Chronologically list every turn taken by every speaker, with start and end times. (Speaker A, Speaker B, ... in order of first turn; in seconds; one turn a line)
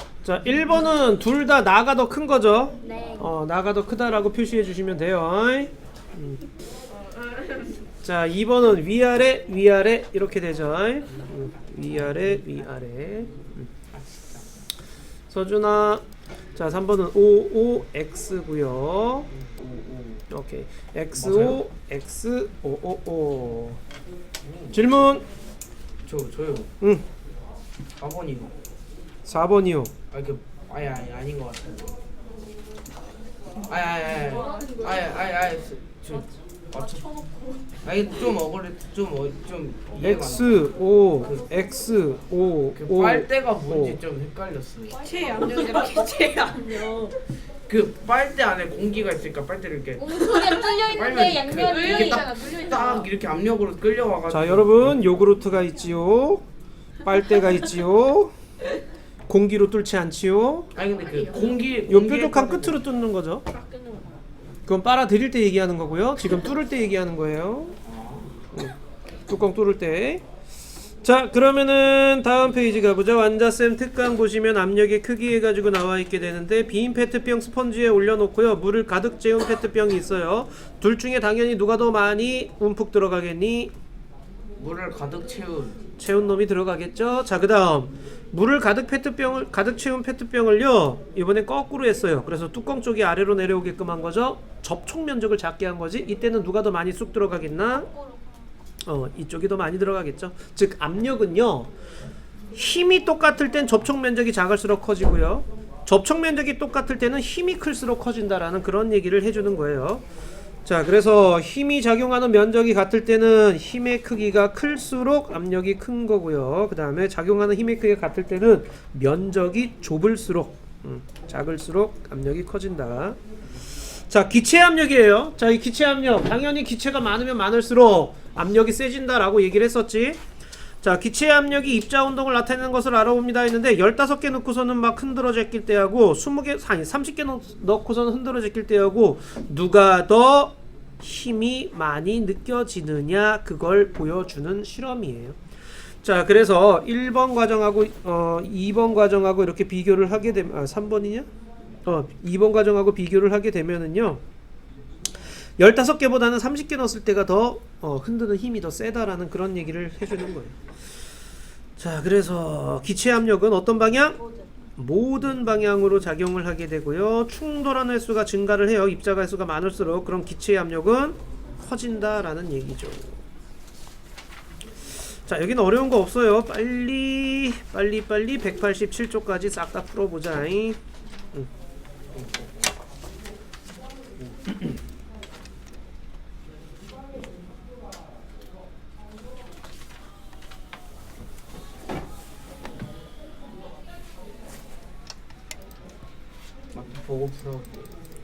Speaker A: 0.2-6.5
Speaker B: 2.8-3.2
Speaker A: 8.0-13.7
Speaker C: 11.8-12.5
Speaker C: 13.9-14.4
Speaker A: 15.3-16.0
Speaker A: 16.6-19.3
Speaker C: 19.4-20.2
Speaker A: 20.3-23.8
Speaker C: 21.1-21.6
Speaker C: 24.4-24.8
Speaker A: 24.7-25.2
Speaker C: 26.0-26.7
Speaker A: 26.8-27.0
Speaker C: 28.0-28.5
Speaker A: 29.2-29.9
Speaker C: 30.1-31.9
Speaker C: 33.6-37.1
Speaker B: 34.1-35.2
Speaker B: 36.9-37.7
Speaker C: 37.8-40.7
Speaker A: 40.0-44.0
Speaker C: 41.2-41.5
Speaker C: 42.7-47.0
Speaker B: 45.0-47.1
Speaker C: 47.7-55.1
Speaker B: 50.0-53.1
Speaker A: 54.3-56.4
Speaker A: 57.0-58.3
Speaker A: 59.3-60.7
Speaker C: 60.7-62.8
Speaker A: 61.9-63.5
Speaker B: 63.5-64.1
Speaker A: 64.7-67.8
Speaker C: 67.8-68.3
Speaker A: 69.3-70.2
Speaker A: 71.0-83.7
Speaker C: 84.6-85.8
Speaker A: 86.0-97.9
Speaker A: 98.8-101.7
Speaker A: 102.5-110.0
Speaker A: 110.6-123.2
Speaker A: 123.7-130.2
Speaker A: 130.8-145.4
Speaker A: 146.0-151.3
Speaker A: 151.8-154.2
Speaker A: 155.6-160.6
Speaker A: 161.8-164.2
Speaker A: 164.8-173.2
Speaker A: 175.2-180.8
Speaker C: 182.1-182.5
Speaker C: 184.2-184.6
Speaker C: 196.7-197.9